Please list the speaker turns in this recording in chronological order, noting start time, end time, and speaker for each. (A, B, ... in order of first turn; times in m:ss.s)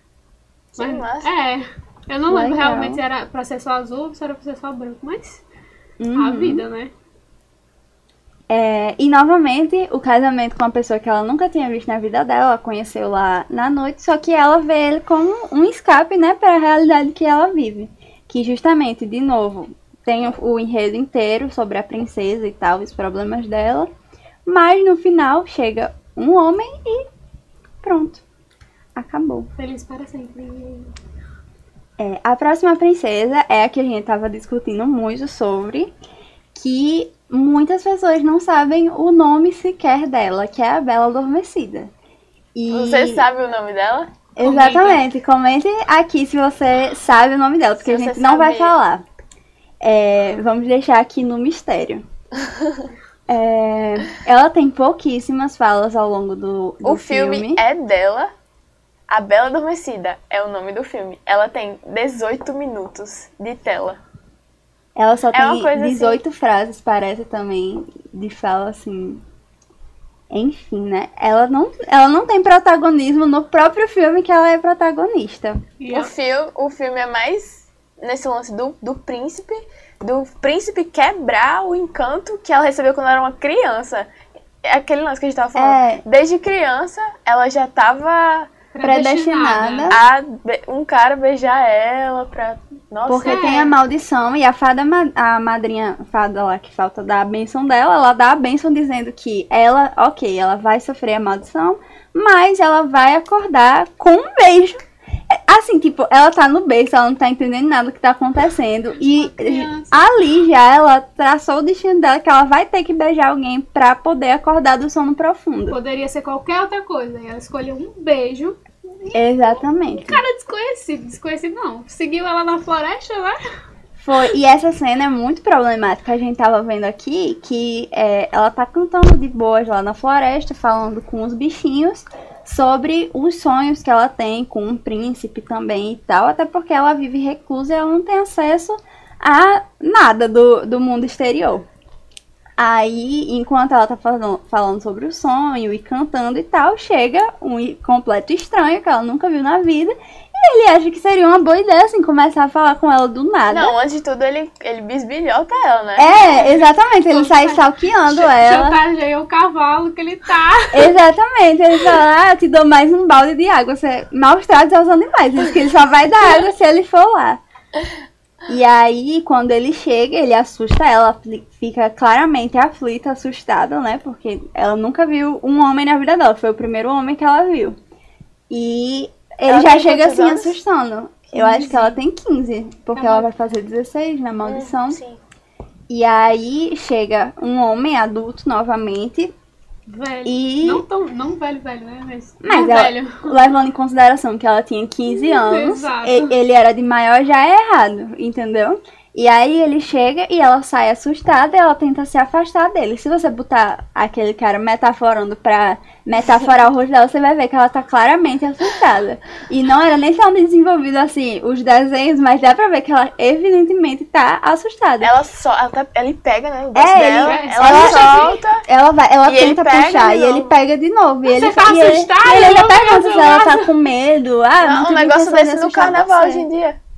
0:00.8-0:01.3 A
0:00.8-0:05.4 B
0:02.3-0:03.0 C
0:06.0-0:06.6 C
0:06.2-0:06.9 B
0:08.5-0:23.9 C
0:24.5-0:27.1 C
0:27.8-0:28.2 C
0:29.0-0:29.5 C
0:29.6-0:30.9 B
0:32.0-0:35.9 C
0:36.6-0:41.9 C
0:42.6-0:43.2 C
0:42.7-0:44.2 A
0:44.4-0:49.0 C
0:44.4-0:45.0 B
0:47.8-0:48.8 A
0:49.8-0:52.0 C
0:52.5-0:52.8 A
0:53.3-0:57.6 C
0:56.8-0:58.3 A
0:59.1-1:04.0 A
1:05.0-1:09.2 C
1:05.3-1:06.2 A
1:10.3-1:15.6 C
1:15.8-1:16.1 B
1:15.9-1:24.1 A
1:24.6-1:28.5 A
1:25.6-1:26.0 C
1:28.7-1:30.0 B
1:28.8-1:30.0 C
1:29.9-1:33.6 A
1:33.1-1:55.8 C
1:33.3-1:33.7 B
1:49.2-1:49.9 B
1:55.7-2:03.4 B
1:59.1-2:00.2 C
2:04.0-2:21.7 C
2:22.6-2:33.7 C
2:33.5-2:36.1 A
2:36.0-2:38.8 C
2:36.1-2:40.9 B
2:40.7-2:47.4 C
2:48.5-2:57.8 C
2:58.5-3:05.0 C
2:59.5-3:00.6 A
3:01.4-3:02.0 B
3:03.0-3:03.3 B
3:04.4-3:05.2 A
3:05.9-3:09.3 C
3:09.9-3:13.5 B
3:10.3-3:10.8 C
3:12.4-3:35.1 C
3:15.1-3:16.3 B
3:35.0-3:38.6 A
3:36.8-3:46.5 C
3:37.0-3:38.4 B
3:39.3-3:40.5 A
3:41.2-3:43.7 B
3:44.6-3:46.8 A